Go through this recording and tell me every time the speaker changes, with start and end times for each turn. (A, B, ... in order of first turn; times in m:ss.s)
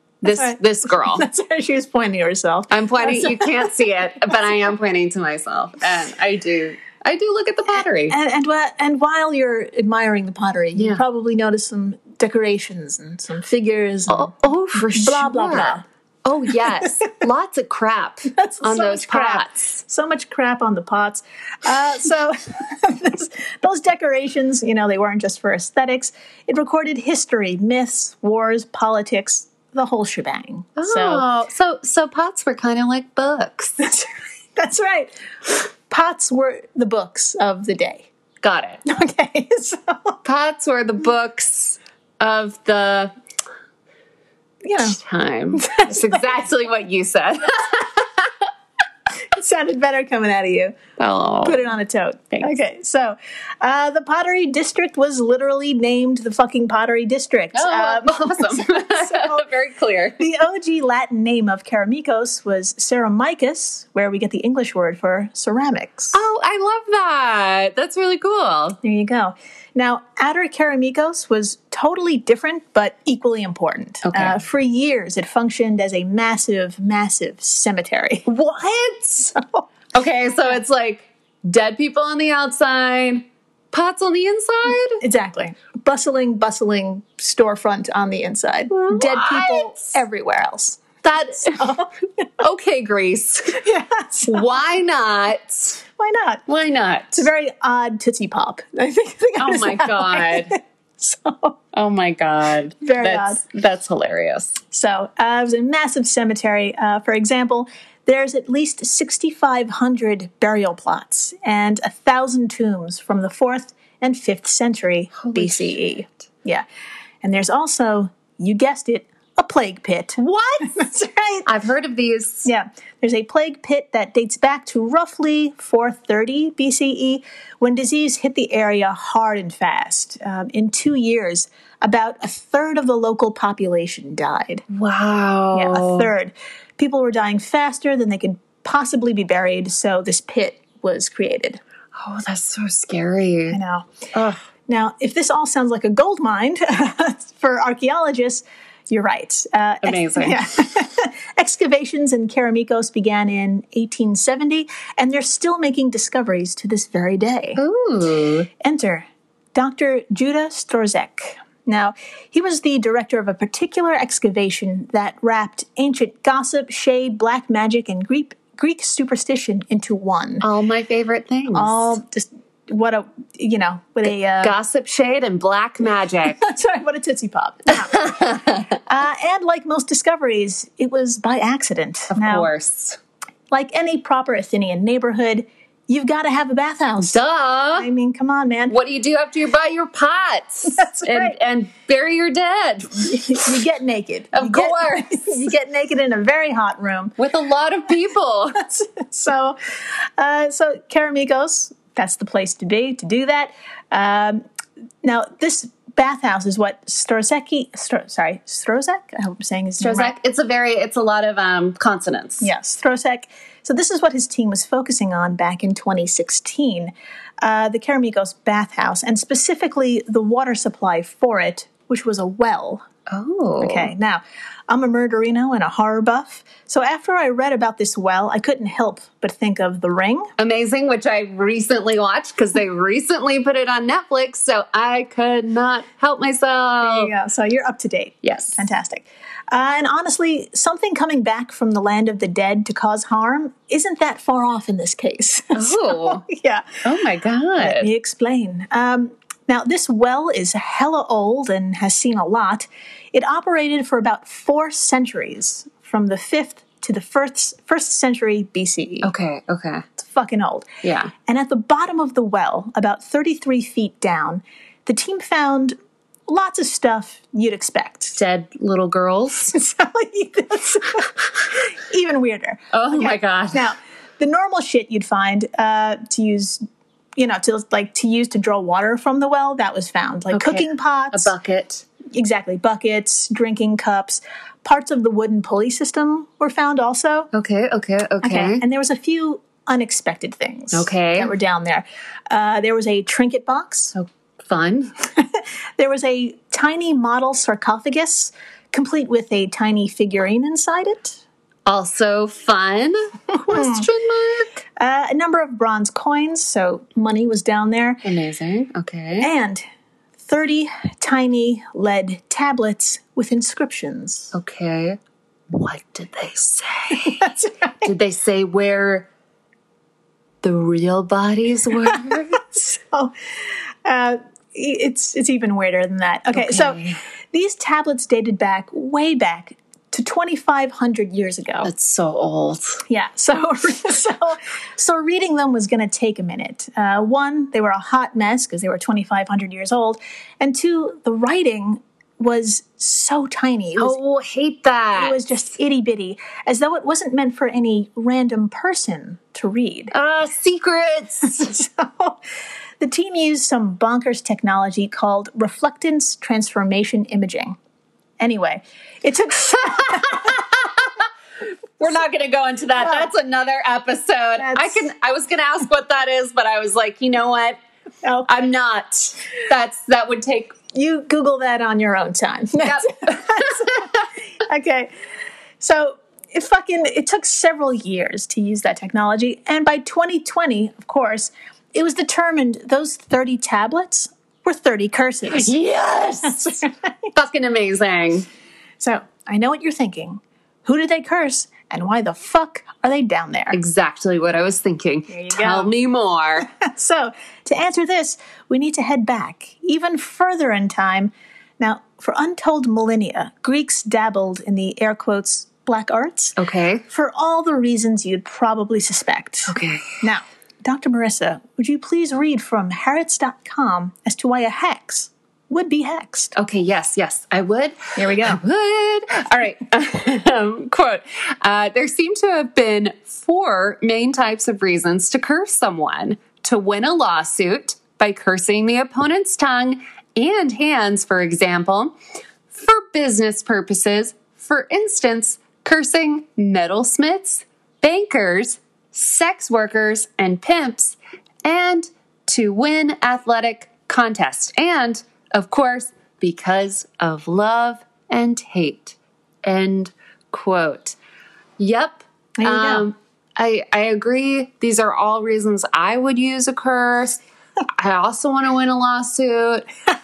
0:00.2-0:01.3 A
0:00.3-0:03.7 B
0:02.7-0:08.2 A
0:07.7-0:15.8 B
0:10.7-0:11.0 A
0:14.1-0:19.8 A
0:18.3-0:31.3 B
0:30.8-0:33.8 A
0:33.8-0:35.1 B
0:35.9-0:38.1 B
0:38.4-0:38.8 A
0:38.8-0:40.2 B
0:40.2-0:43.1 A
0:44.6-0:45.0 B
0:44.8-0:48.0 A
0:45.6-0:46.2 B
0:49.3-0:50.8 B
0:51.0-0:51.6 A
0:51.4-0:59.5 B
0:57.5-1:00.2 A
1:00.2-1:06.2 B
1:06.1-1:08.8 A
1:08.8-1:18.3 B
1:14.0-1:14.4 A
1:18.3-1:19.3 A
1:19.4-1:19.6 B
1:19.9-1:25.0 A
1:25.0-1:32.2 B
1:28.7-1:30.0 A
1:31.0-1:31.6 A
1:32.4-1:33.6 A
1:33.5-1:34.6 B
1:34.2-1:35.8 A
1:36.0-1:36.4 B
1:36.5-1:37.3 A
1:37.2-1:41.6 B
1:39.4-1:40.6 A
1:41.7-1:44.6 A
1:42.8-1:43.4 B
1:44.7-1:56.6 B
1:55.2-1:55.9 A
1:57.2-2:01.5 B
2:00.2-2:00.6 A
2:01.5-2:02.5 A
2:02.4-2:14.6 B
2:14.7-2:16.1 A
2:15.5-2:21.6 B
2:22.0-2:23.6 A
2:23.5-2:23.9 B
2:24.1-2:24.4 A
2:24.7-2:37.6 B
2:29.8-2:30.5 A
2:37.6-2:38.5 A
2:38.6-2:50.5 B
2:50.4-2:52.0 A
2:51.5-2:54.6 B
2:54.0-2:56.4 A
2:56.4-3:02.5 B
2:57.7-2:58.8 A
3:02.1-3:03.0 A
3:03.5-3:07.2 B
3:07.0-3:07.9 A
3:07.8-3:08.8 B
3:08.7-3:13.5 A
3:10.8-3:11.4 B
3:13.1-3:17.2 B
3:14.3-3:15.4 A
3:17.2-3:18.6 A
3:18.7-3:24.4 B
3:25.0-3:30.1 B
3:29.8-3:32.5 A
3:32.4-3:42.8 B
3:43.1-3:43.9 A
3:43.6-3:50.3 B
3:50.4-3:57.1 A
3:56.8-4:06.8 B
3:58.2-3:58.6 A
4:05.5-4:06.2 A
4:06.8-4:07.9 A
4:07.6-4:19.1 B
4:19.0-4:19.9 A
4:20.0-4:20.7 B
4:20.8-4:21.1 A
4:21.3-4:25.8 B
4:26.3-4:28.2 B
4:28.2-4:29.5 A
4:29.5-4:36.6 B
4:32.7-4:33.7 A
4:37.2-4:41.4 B
4:40.3-4:41.9 A
4:42.1-4:47.3 B
4:47.3-4:48.6 A
4:48.2-4:53.9 B
4:50.7-4:51.3 A
4:53.9-4:54.9 A
4:55.2-5:01.2 B
5:01.7-5:04.5 A
5:03.3-5:03.9 B
5:04.8-5:08.0 B
5:08.0-5:09.3 A
5:09.2-5:09.6 B
5:10.2-5:14.3 B
5:14.3-5:15.0 A
5:15.5-5:17.3 A
5:17.1-5:17.9 B
5:17.8-5:19.1 A
5:20.4-5:22.4 A
5:22.5-5:23.1 B
5:23.8-5:31.7 B
5:26.3-5:27.0 A
5:31.6-5:32.8 A
5:32.9-5:44.0 B
5:43.8-5:45.2 A
5:45.0-5:49.9 B
5:49.9-5:51.5 A
5:51.3-5:52.2 B
5:52.8-5:57.6 B
5:58.2-6:00.4 B
5:59.8-6:01.0 A
6:01.8-6:07.6 A
6:04.4-6:04.9 B
6:08.0-6:08.3 B
6:08.3-6:10.6 A
6:10.7-6:14.9 B
6:12.6-6:13.8 A
6:15.6-6:25.5 B
6:25.3-6:26.6 A
6:26.3-6:26.7 B
6:27.1-6:28.3 A
6:28.8-6:33.6 B
6:33.5-6:36.5 A
6:35.1-6:35.7 B
6:36.4-6:46.4 B
6:46.4-6:46.8 A
6:46.9-6:56.3 B
6:49.5-6:49.9 A
6:56.4-7:12.0 A
6:58.0-6:58.4 B
7:12.5-7:31.0 A
7:31.6-7:37.2 A
7:32.4-7:32.9 B
7:37.8-7:39.7 A